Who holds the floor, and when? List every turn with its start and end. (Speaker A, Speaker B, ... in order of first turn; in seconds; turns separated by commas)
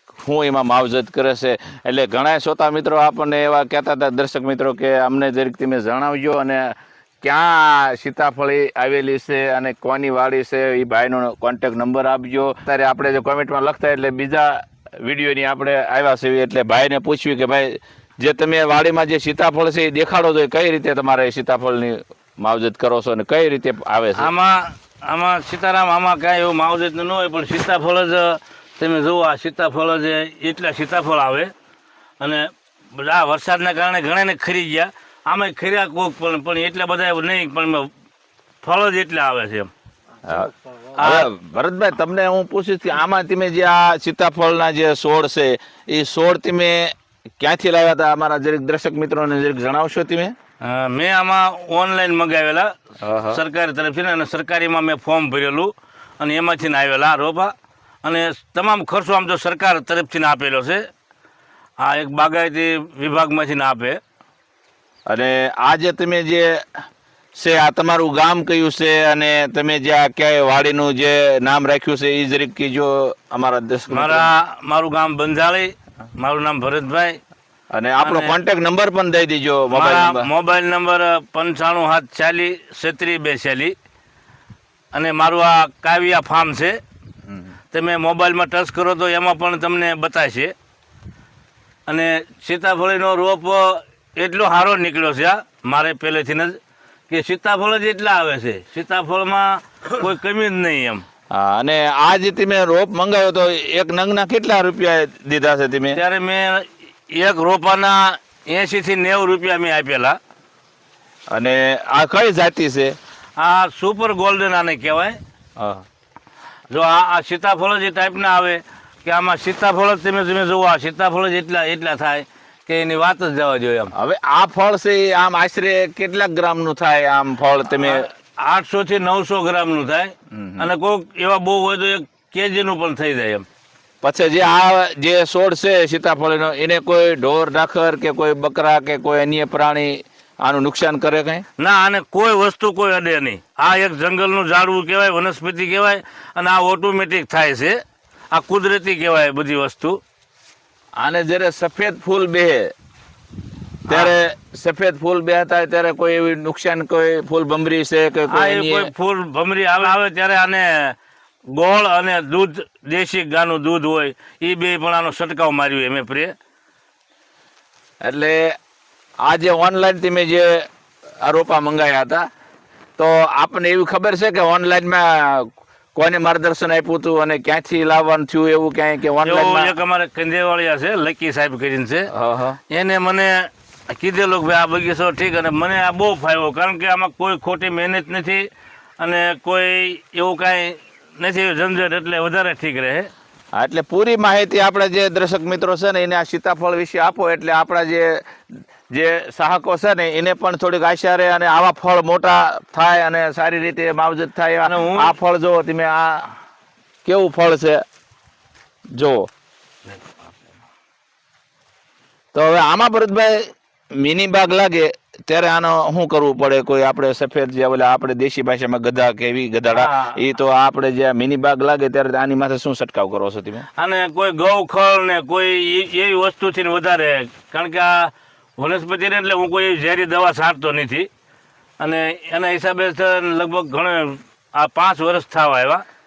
Speaker A: 0.2-24.3, Speaker B: 24.2-31.5, Speaker B: 32.2-37.9, Speaker B: 38.6-39.7, Speaker A: 40.2-50.3, Speaker B: 40.9-41.3, Speaker B: 50.6-52.7, Speaker A: 53.0-53.4, Speaker B: 53.3-60.9, Speaker B: 61.8-64.0, Speaker A: 65.1-66.6, Speaker A: 67.4-74.3, Speaker B: 73.9-77.2, Speaker A: 77.7-80.3, Speaker B: 78.0-78.3, Speaker B: 79.7-83.7, Speaker B: 84.9-86.8, Speaker B: 87.7-90.5, Speaker B: 91.9-96.6, Speaker B: 97.1-101.0, Speaker A: 101.3-106.0, Speaker B: 105.9-110.2, Speaker A: 111.3-113.0, Speaker B: 113.4-115.2, Speaker A: 115.6-115.8, Speaker B: 116.7-123.9, Speaker A: 123.9-128.1, Speaker B: 127.7-133.4, Speaker A: 130.3-130.7, Speaker A: 134.0-141.4, Speaker B: 141.6-147.8, Speaker B: 148.3-150.0, Speaker A: 151.0-152.7, Speaker A: 153.9-158.9, Speaker B: 158.3-160.9, Speaker B: 161.5-166.3, Speaker A: 168.0-168.6, Speaker A: 169.2-170.7, Speaker A: 171.2-172.3, Speaker A: 173.0-179.7, Speaker B: 179.2-182.1, Speaker A: 182.1-182.6, Speaker B: 182.7-188.4, Speaker B: 189.0-193.1, Speaker A: 193.5-198.3, Speaker A: 198.9-206.3, Speaker B: 204.7-205.1, Speaker A: 207.0-207.8, Speaker A: 208.9-209.3, Speaker A: 212.3-223.7, Speaker B: 219.7-220.2, Speaker B: 223.8-231.1, Speaker B: 231.8-235.8